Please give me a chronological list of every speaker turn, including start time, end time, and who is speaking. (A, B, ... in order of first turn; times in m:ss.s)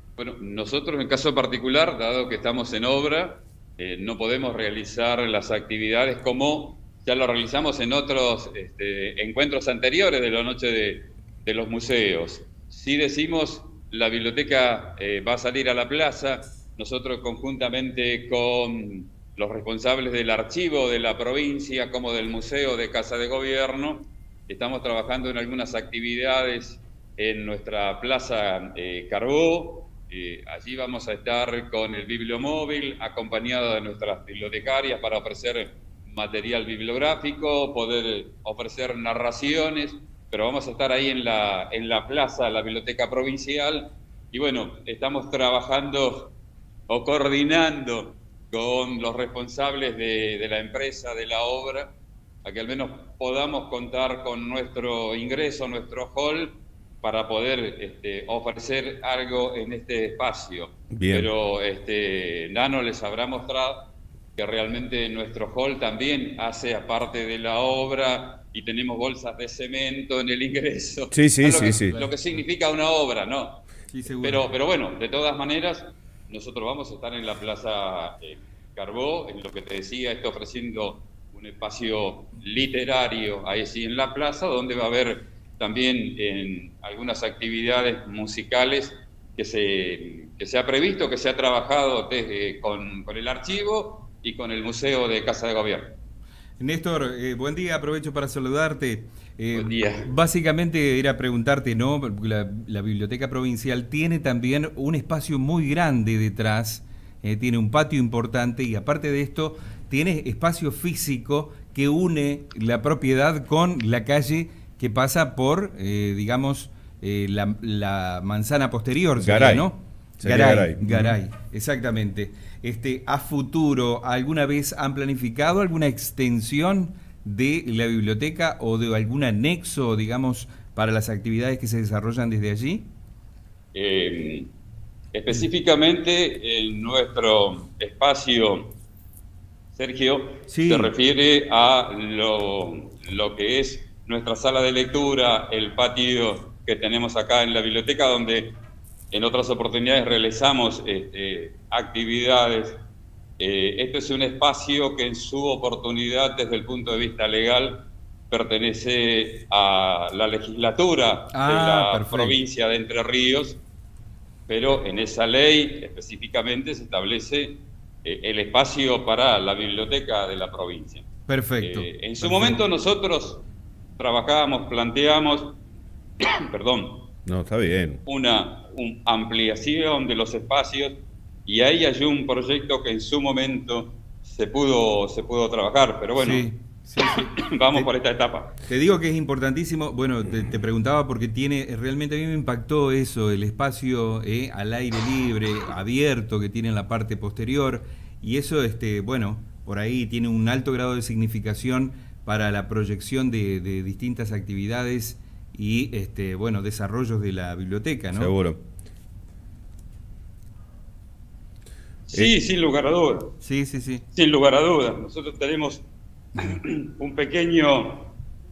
0:00.2-0:46.3 A
0:46.9-1:36.0 A
1:00.9-1:01.3 B
1:11.1-1:12.0 B
1:13.9-1:14.5 C
1:36.6-2:12.9 C
1:39.5-1:40.1 A
1:59.2-2:01.2 B
2:13.7-2:14.5 A
2:15.1-2:18.8 A
2:19.7-2:28.5 A
2:20.5-2:20.9 C
2:29.1-2:32.8 A
2:33.4-2:43.6 A
2:41.3-2:42.4 C
2:44.5-2:51.0 A
2:51.3-2:52.6 C
2:51.6-2:53.4 A
2:54.0-2:55.6 A
2:56.2-2:57.1 A
2:57.3-2:58.0 B
2:58.0-3:08.5 A
3:06.2-3:07.9 C
3:08.6-3:28.3 C
3:28.1-3:28.6 B
3:32.1-3:33.4 A
3:33.4-3:34.0 C
3:34.1-3:35.8 A
3:36.4-3:38.1 A